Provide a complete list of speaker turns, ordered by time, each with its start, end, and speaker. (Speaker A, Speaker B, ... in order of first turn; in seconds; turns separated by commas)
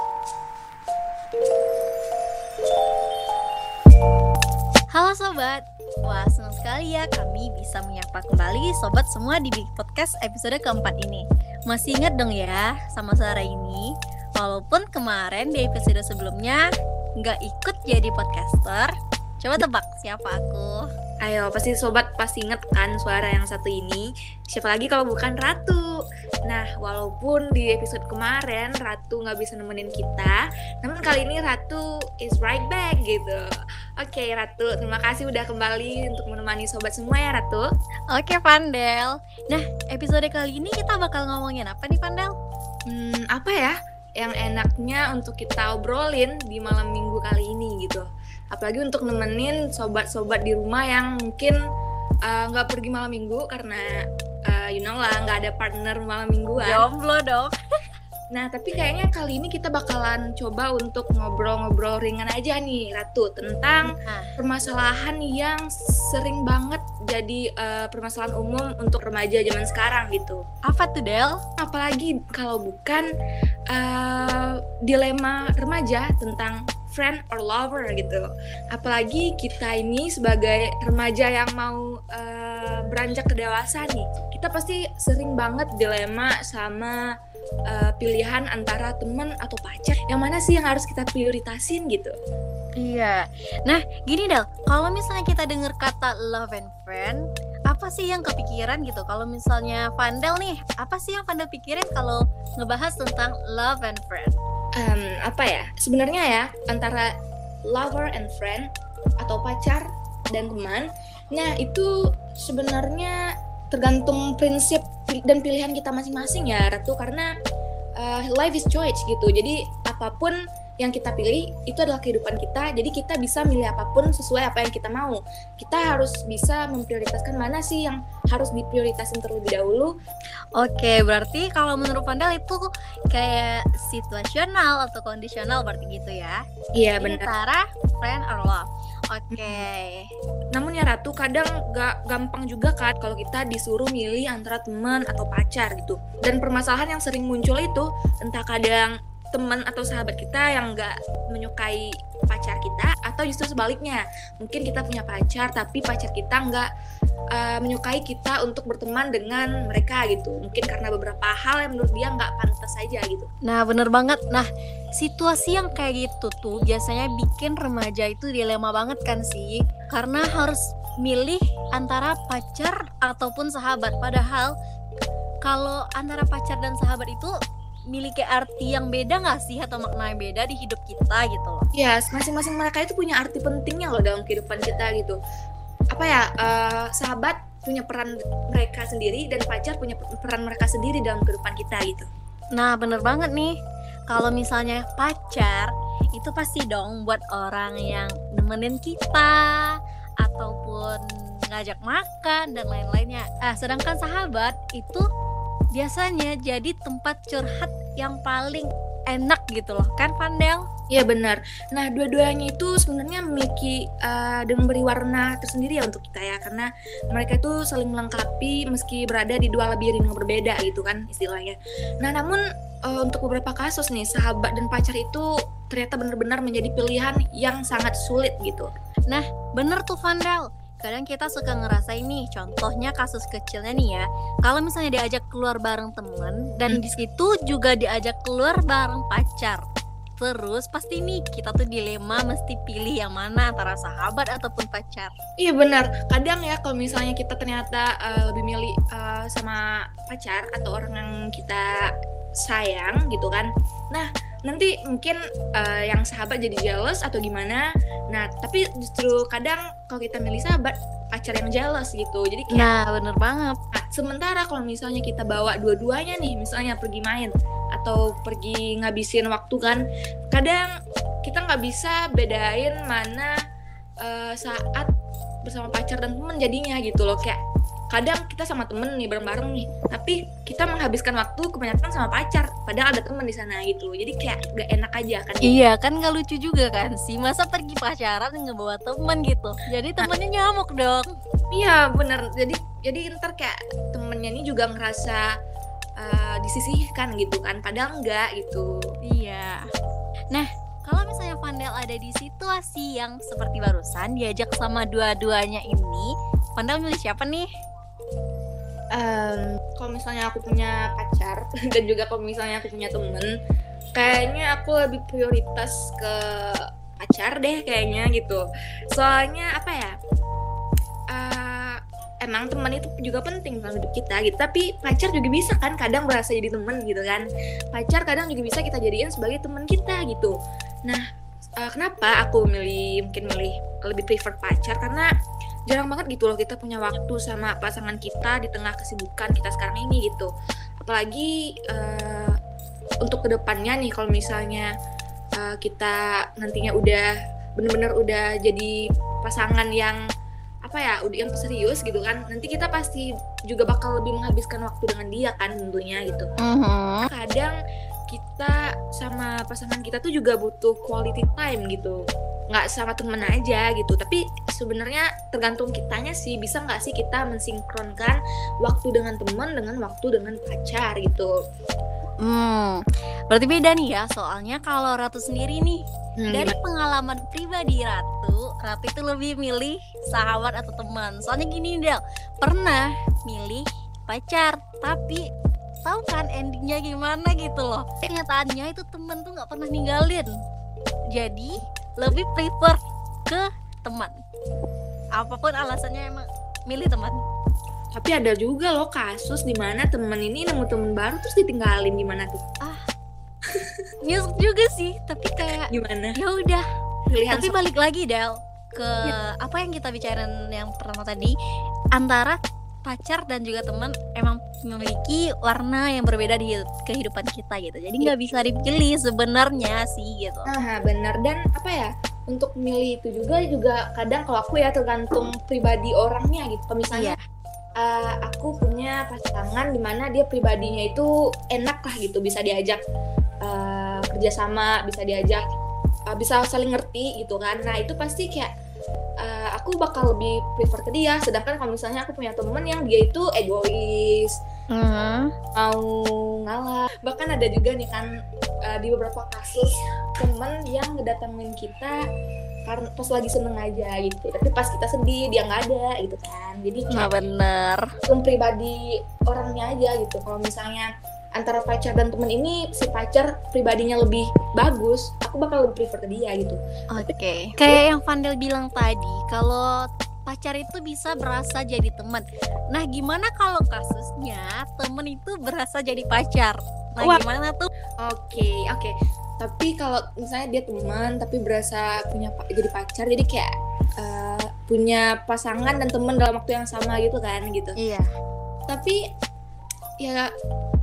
Speaker A: 4.9-16.6, Speaker A: 17.2-20.9, Speaker B: 21.2-25.8, Speaker B: 26.5-33.4, Speaker B: 34.0-37.7, Speaker A: 38.1-42.3, Speaker B: 42.9-51.6, Speaker B: 52.2-53.9, Speaker B: 54.5-56.9, Speaker A: 56.6-57.5, Speaker B: 58.3-70.4, Speaker A: 63.9-64.3, Speaker A: 70.7-71.4, Speaker B: 71.6-73.0, Speaker B: 73.7-87.0, Speaker B: 87.7-92.1, Speaker A: 92.8-104.4, Speaker B: 104.8-107.1, Speaker B: 107.7-108.7, Speaker B: 109.2-113.1, Speaker B: 113.7-117.3, Speaker B: 118.0-129.9, Speaker A: 130.6-136.4, Speaker B: 136.8-137.3, Speaker A: 137.0-140.1, Speaker B: 139.3-139.6, Speaker B: 140.5-156.7, Speaker B: 157.3-163.3, Speaker A: 163.4-174.5, Speaker A: 175.4-177.3, Speaker A: 177.9-181.7, Speaker B: 181.8-185.2, Speaker B: 185.9-192.1, Speaker A: 192.6-193.6, Speaker A: 194.1-205.0, Speaker A: 205.7-210.7, Speaker B: 210.9-228.7, Speaker A: 229.1-239.6, Speaker A: 240.2-245.1, Speaker B: 245.4-251.7, Speaker B: 252.4-262.7, Speaker A: 262.5-263.6, Speaker B: 263.7-270.7, Speaker B: 271.2-273.3, Speaker B: 274.0-274.9, Speaker B: 275.5-277.4, Speaker B: 277.9-285.6, Speaker A: 285.4-291.1, Speaker B: 291.5-295.2, Speaker B: 296.0-298.7, Speaker A: 299.1-299.6, Speaker A: 300.3-307.5, Speaker B: 308.9-313.3, Speaker B: 313.9-319.9, Speaker B: 321.1-330.3, Speaker B: 331.6-335.1, Speaker B: 335.7-340.3, Speaker B: 340.8-342.4, Speaker B: 343.0-344.7, Speaker B: 345.4-347.1, Speaker B: 347.6-350.0, Speaker B: 350.7-356.3, Speaker A: 356.4-357.1, Speaker B: 357.0-357.5, Speaker B: 358.1-362.0, Speaker B: 362.5-371.3, Speaker A: 372.2-385.2, Speaker B: 376.2-376.5, Speaker A: 385.9-390.3, Speaker A: 391.1-394.1, Speaker A: 395.1-397.2, Speaker B: 397.9-402.4, Speaker A: 404.0-406.6, Speaker B: 405.5-406.2, Speaker B: 407.1-407.6, Speaker A: 407.3-411.4, Speaker A: 411.9-420.5, Speaker B: 418.0-418.4, Speaker B: 420.5-427.1, Speaker A: 426.9-427.2, Speaker B: 427.8-432.8, Speaker B: 433.4-435.4, Speaker B: 436.1-438.5, Speaker B: 439.2-444.4, Speaker A: 444.7-445.3, Speaker B: 445.6-448.1, Speaker B: 448.7-452.0, Speaker B: 452.7-457.1, Speaker A: 456.9-457.9, Speaker B: 458.1-467.1, Speaker A: 466.9-477.7, Speaker B: 478.0-483.5, Speaker B: 484.0-487.8, Speaker A: 487.8-488.1, Speaker B: 488.7-489.0, Speaker B: 490.0-490.3